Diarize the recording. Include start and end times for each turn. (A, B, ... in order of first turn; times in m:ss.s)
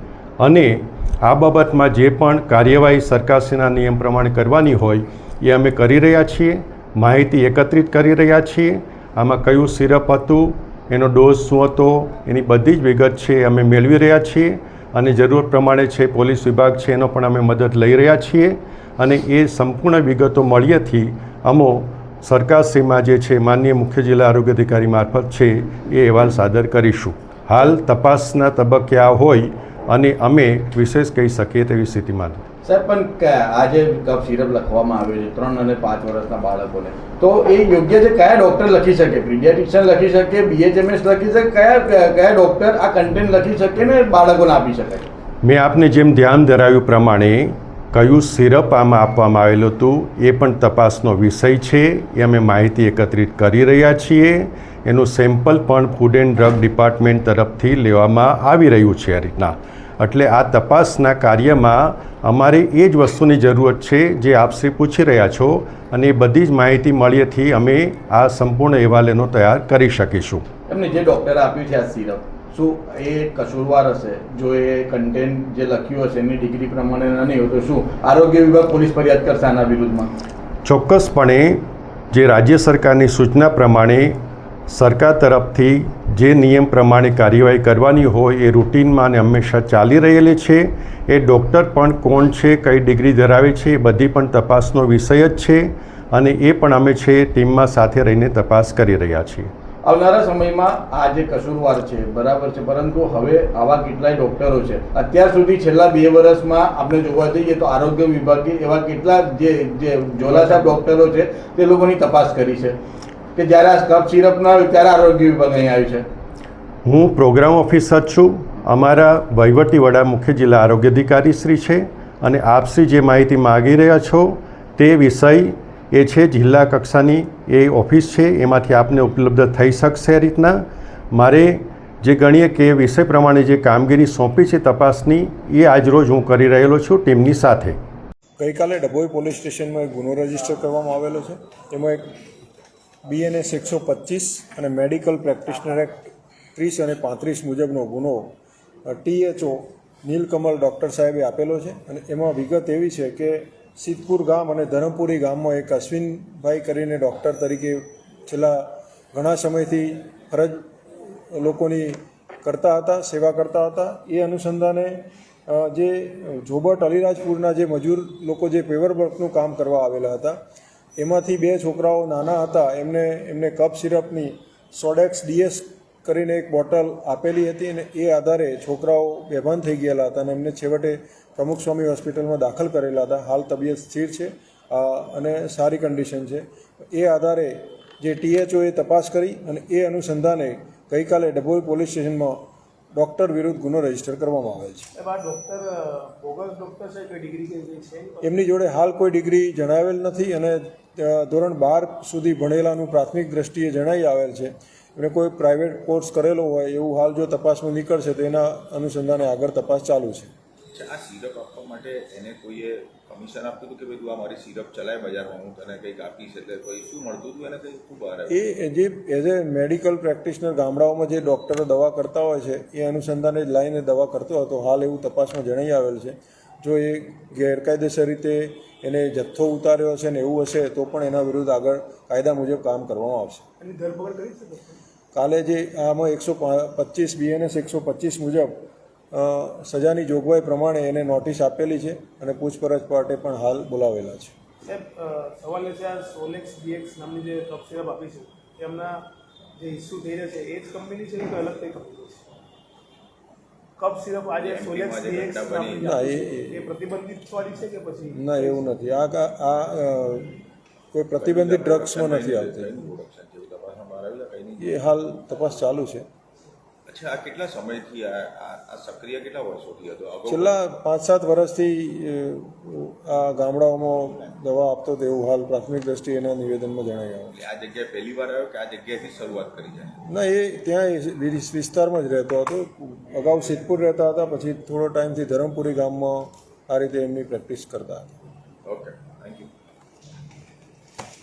0:00.4-0:32.4 A
0:32.6-0:45.1 B
0:45.4-1:10.4 A
1:10.7-1:20.1 B
1:20.6-1:21.6 A
1:22.1-1:24.1 A
1:24.7-1:39.5 A
1:39.8-1:52.8 B
1:53.4-1:56.1 B
1:56.8-2:10.6 A
2:11.1-2:17.8 A
2:18.4-2:22.0 C
2:23.0-2:28.3 C
2:28.9-2:40.6 C
2:41.3-2:50.4 C
2:51.0-3:12.4 C
3:12.9-3:14.9 C
3:15.0-3:18.4 D
3:18.2-3:30.3 C
3:30.7-3:38.3 E
3:38.3-3:53.4 C
3:53.6-3:54.8 D
3:55.1-3:58.6 C
3:59.1-4:04.3 C
4:04.6-4:09.0 D
4:09.6-4:12.2 D
4:13.8-4:18.7 D
4:14.3-4:16.0 E
4:15.8-4:16.7 C
4:18.1-4:22.7 C
4:21.2-4:24.7 E
4:24.6-4:26.0 C
4:26.9-4:30.6 E
4:30.3-4:37.3 C
4:37.3-4:40.0 E
4:40.1-4:48.1 C
4:48.6-4:49.5 E